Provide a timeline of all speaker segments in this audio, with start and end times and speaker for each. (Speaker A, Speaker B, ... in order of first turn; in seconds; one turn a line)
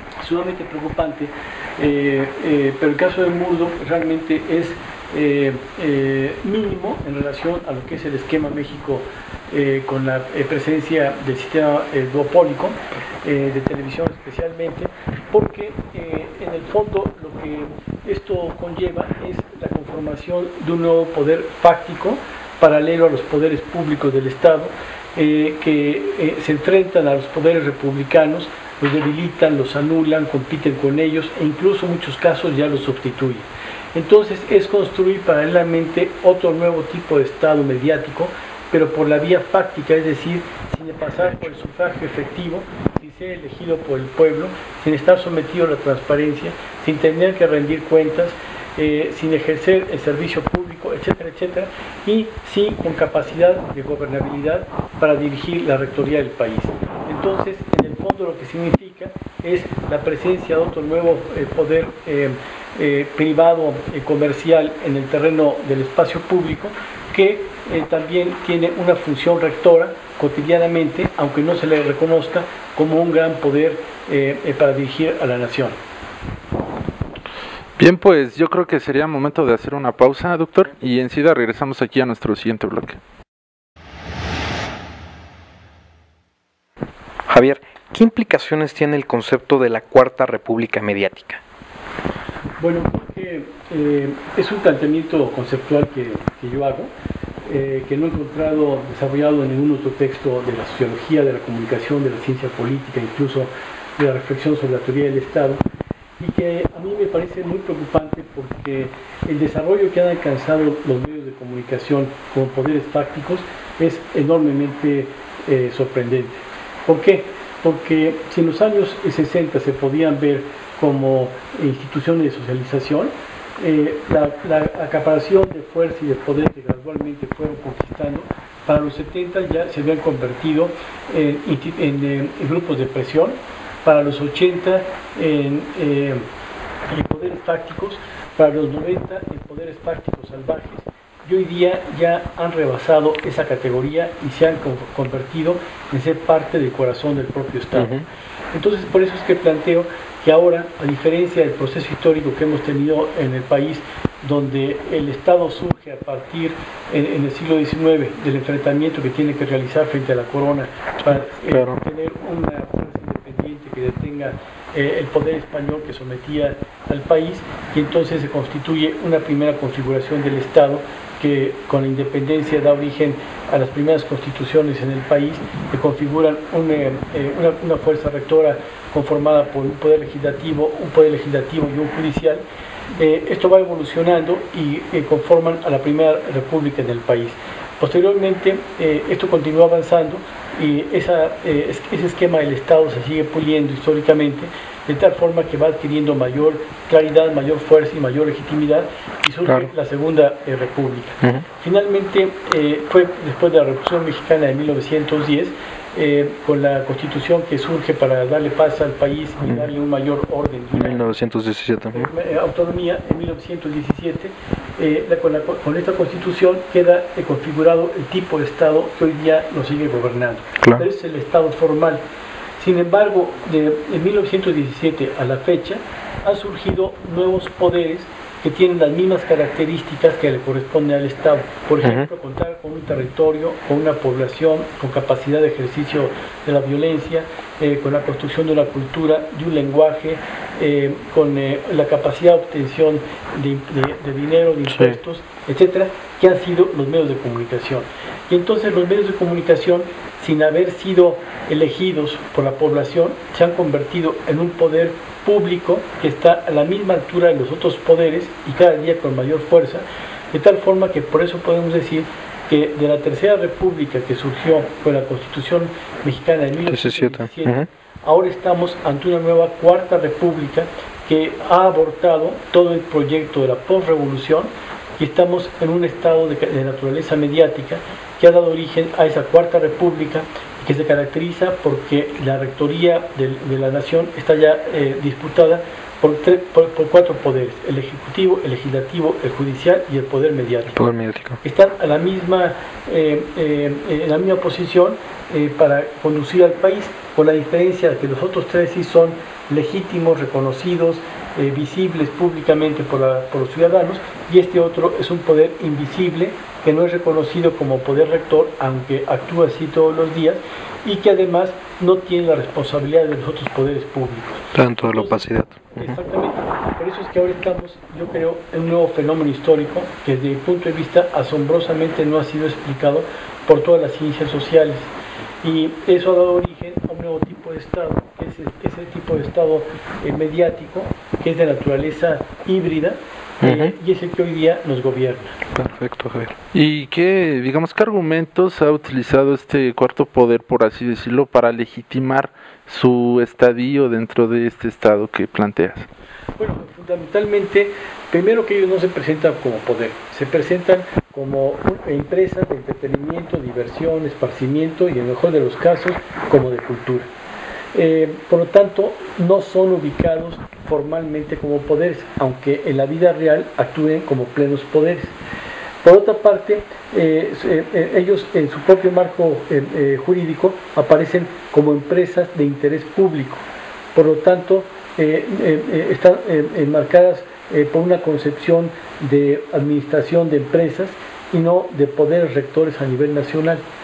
Speaker A: 0.2-75.8
Speaker B: 77.8-83.0
Speaker C: 87.3-91.4
Speaker A: 92.6-96.9
Speaker A: 97.4-105.6
Speaker A: 106.2-136.2
Speaker A: 136.9-147.9
Speaker C: 147.8-148.1
Speaker A: 148.5-182.4
Speaker C: 161.1-161.8
Speaker A: 182.9-211.0
Speaker C: 210.7-212.1
Speaker A: 211.9-222.0
Speaker A: 222.6-290.8
Speaker C: 231.8-232.1
Speaker C: 244.7-245.0
Speaker C: 266.7-267.7
Speaker C: 290.7-291.4
Speaker A: 291.4-324.9
Speaker C: 314.5-315.9
Speaker A: 325.4-335.4
Speaker C: 333.4-333.7
Speaker C: 335.5-336.4
Speaker B: 336.5-345.9
Speaker A: 346.4-357.1
Speaker A: 357.7-365.1
Speaker A: 365.8-373.4
Speaker A: 373.9-383.6